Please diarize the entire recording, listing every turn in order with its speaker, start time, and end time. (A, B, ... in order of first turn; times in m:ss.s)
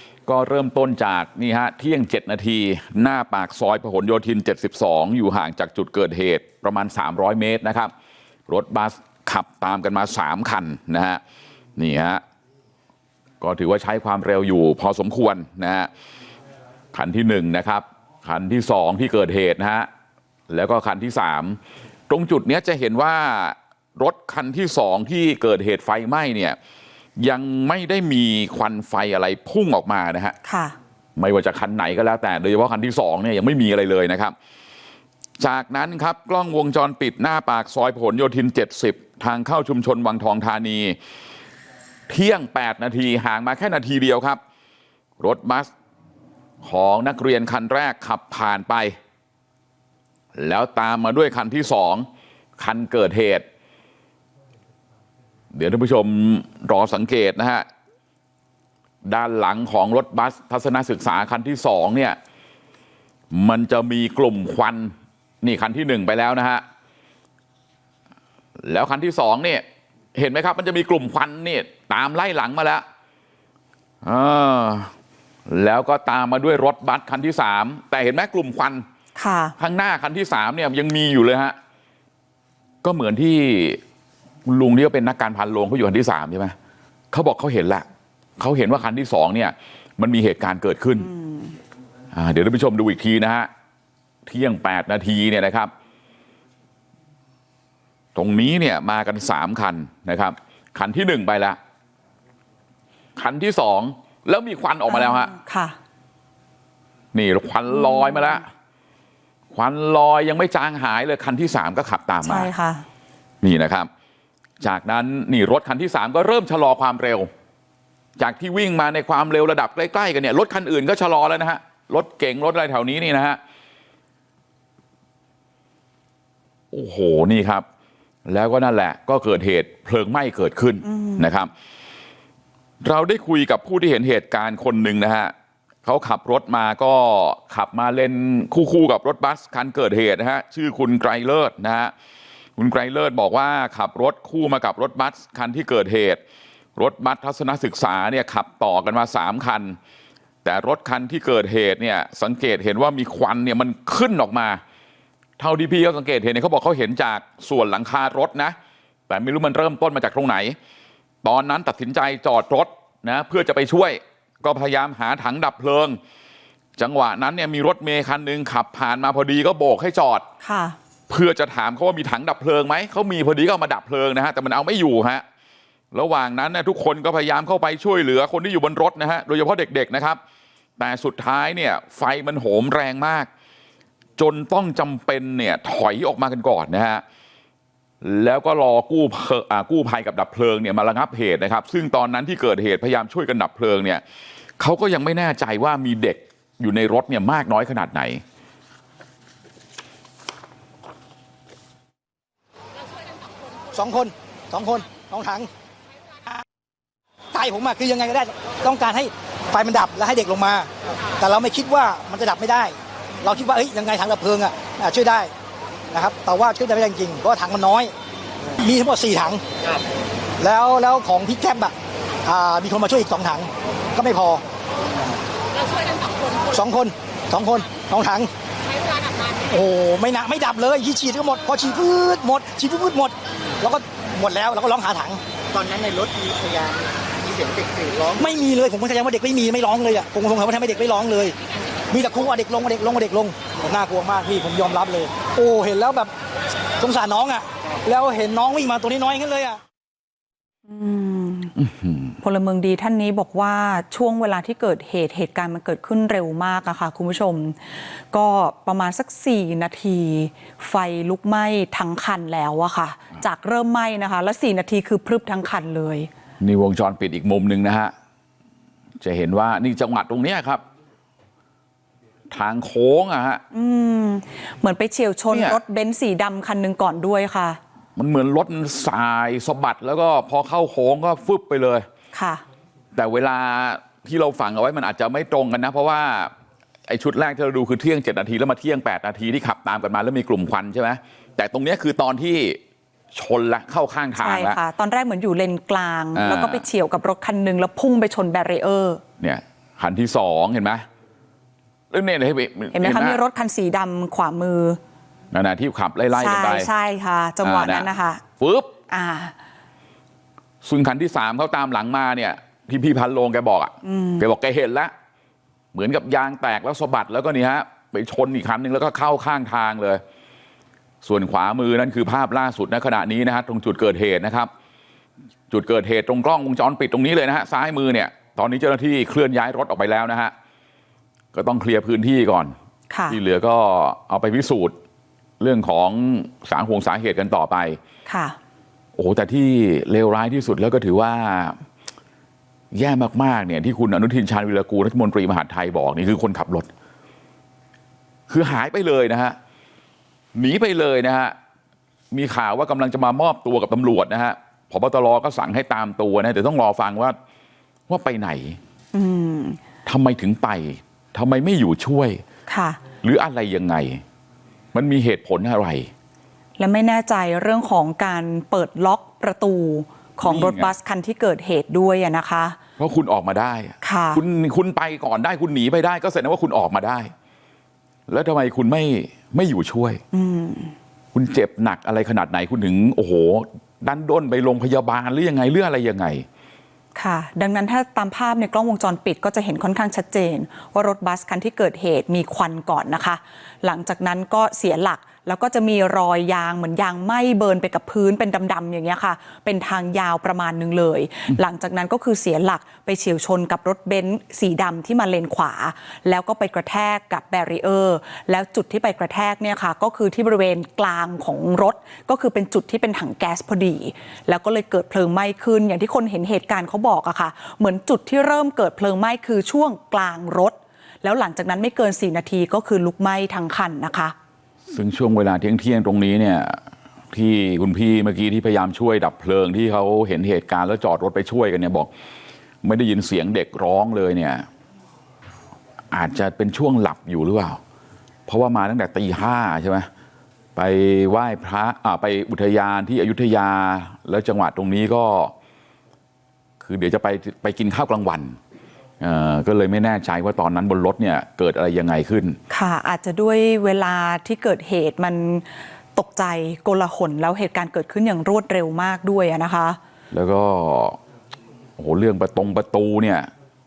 0:00.2-0:07.9 A
0:08.5-0:11.2 A
0:11.8-0:12.2 A
0:13.4-0:15.9 A
0:16.9-0:19.9 A
0:20.5-0:26.6 A
0:27.2-0:30.4 A
0:30.4-0:30.7 B
0:31.2-0:34.3 A
0:35.4-0:41.0 A
0:42.1-0:44.4 A
0:45.2-0:45.7 A
0:46.6-0:49.0 A
0:50.3-0:52.1 A
0:52.6-0:53.4 A
0:55.5-0:57.7 A
0:59.0-1:02.2 A
1:03.3-1:06.6 A
1:08.6-1:09.6 A
1:10.1-1:12.8 A
1:14.0-1:14.9 A
1:15.5-1:18.8 A
1:19.2-1:19.6 B
1:19.6-1:21.6 A
1:22.8-1:23.8 A
1:24.4-1:26.5 A
1:27.1-1:27.8 A
1:28.4-1:31.1 A
1:31.1-1:31.5 B
1:32.1-1:33.5 A
1:34.2-1:35.7 A
1:38.1-1:41.6 A
1:43.2-1:45.3 A
1:44.9-1:45.8 B
1:47.1-1:48.4 A
1:47.7-1:48.4 B
1:49.5-1:52.5 A
1:52.2-1:52.8 B
1:53.4-1:53.9 A
1:54.6-1:57.3 A
1:58.2-2:03.4 A
2:06.7-2:07.6 A
2:08.2-2:11.5 A
2:10.9-2:11.2 B
2:12.8-2:15.3 A
2:15.8-2:21.9 A
2:22.6-2:26.2 A
2:26.8-2:29.8 A
2:30.4-2:34.6 A
2:35.4-2:38.6 A
2:39.1-2:40.6 A
2:41.2-2:46.0 A
2:46.8-2:50.2 A
2:50.4-2:50.8 B
2:51.1-2:55.2 A
2:55.9-3:00.2 A
3:00.8-3:03.3 A
3:04.2-3:07.0 A
3:08.0-3:14.0 A
3:14.6-3:18.2 A
3:23.7-3:25.5 C
3:27.3-3:35.3 C
3:35.9-3:37.9 C
3:38.6-3:39.4 C
3:40.4-3:44.4 C
3:46.5-3:48.3 C
3:49.4-3:55.2 C
3:55.5-3:58.3 D
3:58.2-4:01.4 C
4:01.9-4:06.1 C
4:06.8-4:09.6 C
4:10.7-4:11.5 B
4:11.6-4:12.1 A
4:12.2-4:17.6 B
4:18.1-4:26.1 B
4:26.4-4:27.9 A
4:29.0-4:30.6 A
4:32.3-4:33.4 A
4:33.5-4:37.6 B
4:35.3-4:35.6 A
4:38.0-4:41.8 A
4:42.1-4:42.4 B
4:42.9-4:46.3 A
4:46.9-4:52.6 A
4:53.1-4:54.6 A
4:54.2-4:59.0 B
4:56.1-4:56.6 A
4:59.2-5:00.8 A
5:01.9-5:03.2 A
5:02.7-5:04.8 B
5:05.3-5:06.7 A
5:06.1-5:08.2 B
5:07.4-5:08.7 A
5:08.9-5:09.3 B
5:10.6-5:14.9 A
5:13.8-5:14.2 B
5:15.7-5:20.0 A
5:21.0-5:24.5 A
5:25.5-5:30.3 A
5:31.3-5:32.5 A
5:32.9-5:33.2 B
5:33.1-5:34.7 A
5:35.4-5:37.8 A
5:38.1-5:38.4 B
5:39.0-5:41.6 A
5:42.7-5:46.7 A
5:48.3-5:49.4 A
5:50.3-5:51.3 A
5:52.1-5:57.2 A
5:57.9-5:58.6 A
5:58.9-5:59.6 B
5:59.8-6:02.2 A
6:02.5-6:02.8 B
6:03.0-6:04.0 A
6:04.7-6:05.9 A
6:06.6-6:12.6 B
6:10.2-6:10.7 A
6:12.8-6:17.1 A
6:13.8-6:14.2 B
6:18.1-6:20.0 A
6:20.1-6:20.7 B
6:21.1-6:26.2 A
6:26.9-7:04.1 B
7:04.7-7:06.6 A
7:07.1-7:11.9 A
7:12.6-7:14.4 A
7:15.9-7:17.6 A
7:18.3-7:19.9 A
7:20.6-7:25.3 A
7:26.6-7:28.4 A
7:29.0-7:32.4 A
7:32.5-7:39.8 B
7:40.1-7:41.0 A
7:41.8-7:43.3 A